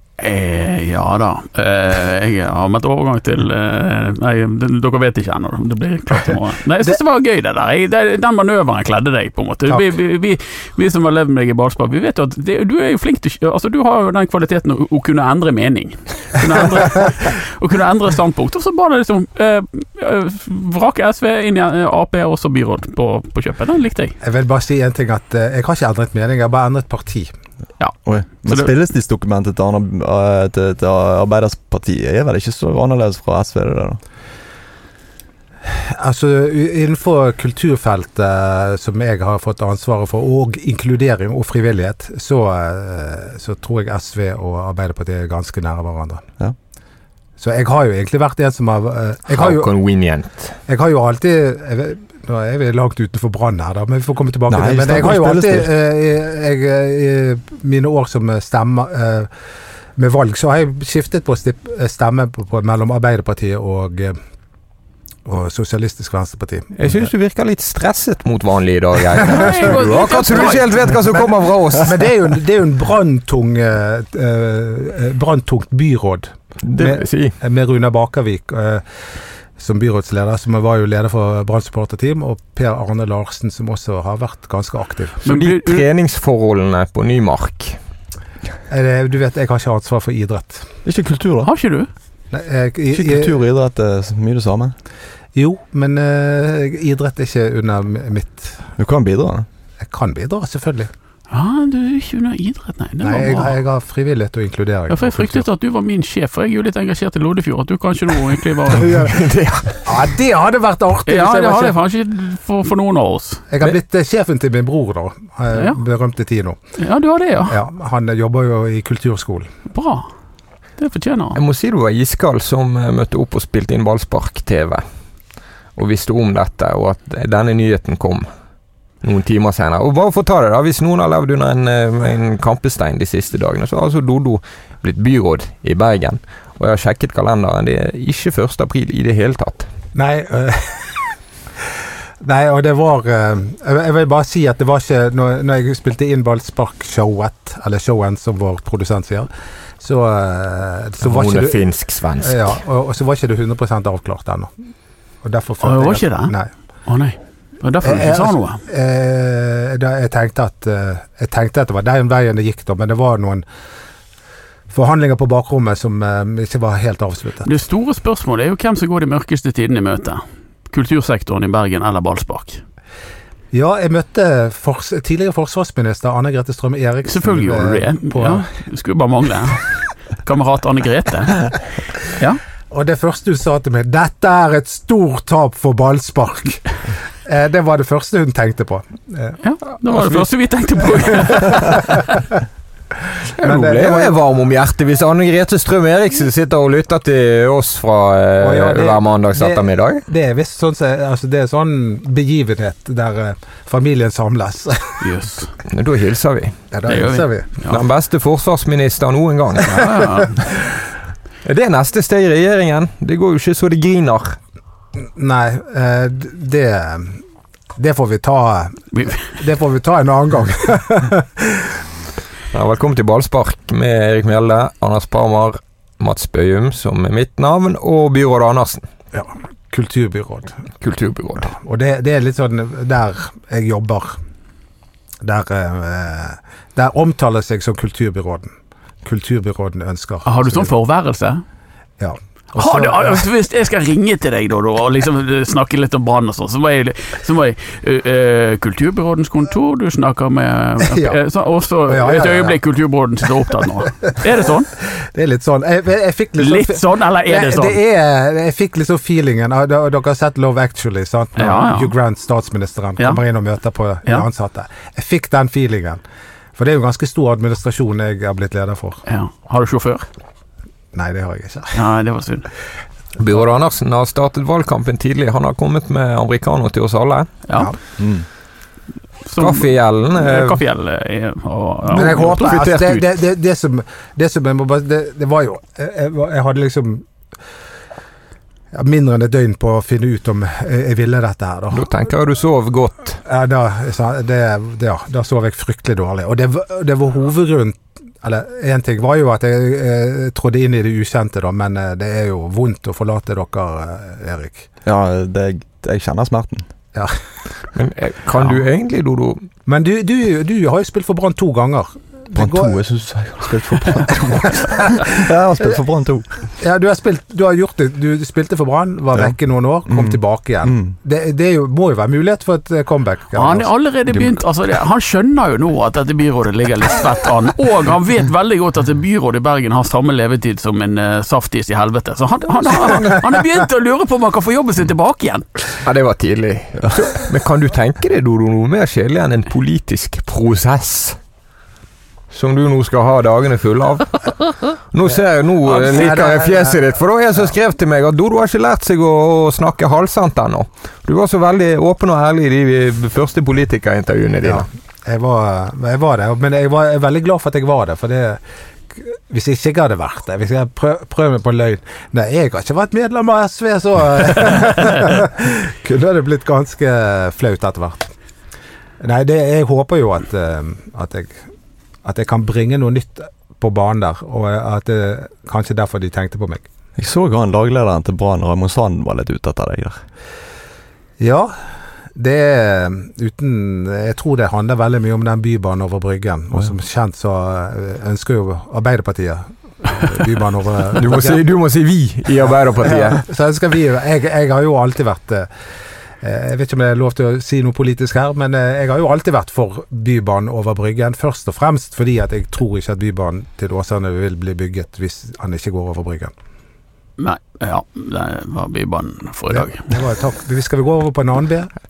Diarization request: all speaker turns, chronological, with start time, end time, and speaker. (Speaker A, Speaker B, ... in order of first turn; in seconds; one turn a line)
Speaker A: 0.2-24.1
Speaker B: 24.2-27.3
Speaker C: 28.0-34.0
Speaker A: 28.4-28.7
Speaker B: 35.6-46.2
Speaker B: 47.4-49.7
Speaker D: 49.3-50.5
Speaker B: 50.7-59.3
Speaker C: 54.5-55.7
Speaker B: 60.0-64.2
Speaker B: 65.2-66.9
Speaker D: 66.8-72.1
Speaker A: 69.3-70.7
Speaker B: 71.8-78.8
Speaker D: 76.6-77.3
Speaker B: 79.6-85.2
Speaker A: 85.2-85.8
Speaker D: 85.2-87.8
Speaker B: 88.7-90.7
Speaker C: 90.8-91.5
Speaker A: 91.4-91.9
Speaker B: 92.3-93.4
Speaker C: 92.9-94.7
Speaker B: 95.3-98.7
Speaker C: 98.8-99.5
Speaker B: 99.8-100.9
Speaker A: 101.3-103.5
Speaker B: 103.0-105.5
Speaker A: 104.9-109.1
Speaker B: 108.7-109.2
Speaker D: 108.8-109.9
Speaker B: 109.8-111.8
Speaker A: 111.1-113.5
Speaker B: 113.5-116.6
Speaker A: 116.8-117.6
Speaker B: 117.5-119.5
Speaker A: 119.7-120.1
Speaker A: 120.8-121.4
Speaker D: 121.3-124.8
Speaker D: 125.8-128.3
Speaker D: 129.0-139.7
Speaker B: 139.9-140.9
Speaker B: 142.2-149.3
Speaker B: 149.8-151.7
Speaker D: 151.0-152.6
Speaker B: 152.2-154.5
Speaker B: 155.2-156.5
Speaker A: 155.6-156.3
Speaker A: 156.9-158.6
Speaker B: 157.8-163.4
Speaker B: 164.7-167.5
Speaker A: 167.4-172.6
Speaker B: 173.5-178.4
Speaker A: 177.1-179.6
Speaker A: 180.2-181.5
Speaker A: 182.1-182.4
Speaker B: 182.7-186.6
Speaker B: 187.2-189.4
Speaker A: 189.4-192.2
Speaker D: 189.9-190.2
Speaker B: 191.4-191.7
Speaker D: 193.3-200.0
Speaker B: 193.4-194.2
Speaker B: 198.4-205.0
Speaker A: 205.0-205.5
Speaker D: 205.7-206.6
Speaker B: 206.7-207.5
Speaker A: 206.9-207.8
Speaker D: 207.7-210.0
Speaker A: 209.6-210.4
Speaker D: 211.4-214.4
Speaker B: 215.1-217.2
Speaker B: 217.8-221.8
Speaker A: 218.9-219.2
Speaker D: 222.5-228.8
Speaker B: 229.1-230.6
Speaker D: 230.8-231.5
Speaker B: 231.4-234.2
Speaker B: 235.2-238.5
Speaker B: 239.0-240.7
Speaker A: 240.2-241.4
Speaker B: 242.0-243.3
Speaker A: 242.6-254.7
Speaker B: 250.8-251.2
Speaker B: 251.9-252.6
Speaker B: 254.8-266.0
Speaker A: 256.4-257.8
Speaker A: 261.4-261.9
Speaker B: 266.6-269.0
Speaker A: 269.1-270.0
Speaker B: 270.9-271.8
Speaker A: 271.7-272.5
Speaker D: 273.2-277.3
Speaker A: 277.5-277.7
Speaker C: 278.0-278.2
Speaker A: 279.2-282.6
Speaker D: 279.4-280.6
Speaker B: 281.9-287.1
Speaker D: 281.9-283.1
Speaker B: 288.7-291.9
Speaker D: 291.7-293.2
Speaker B: 293.2-304.7
Speaker C: 304.8-306.7
Speaker D: 307.7-309.4
Speaker B: 309.7-312.8
Speaker C: 312.3-316.3
Speaker B: 314.5-315.1
Speaker B: 316.6-323.7
Speaker C: 319.9-320.9
Speaker A: 323.3-335.4
Speaker D: 332.7-333.1
Speaker D: 335.8-341.2
Speaker D: 342.3-354.7
Speaker B: 345.6-346.8
Speaker B: 354.4-358.4
Speaker B: 358.9-368.1
Speaker B: 369.0-371.4
Speaker B: 372.0-376.6
Speaker C: 377.0-380.0
Speaker B: 381.2-381.5
Speaker B: 382.1-391.4
Speaker D: 390.9-393.2
Speaker B: 392.4-395.5
Speaker B: 396.2-406.3
Speaker A: 407.2-409.9
Speaker B: 409.5-411.7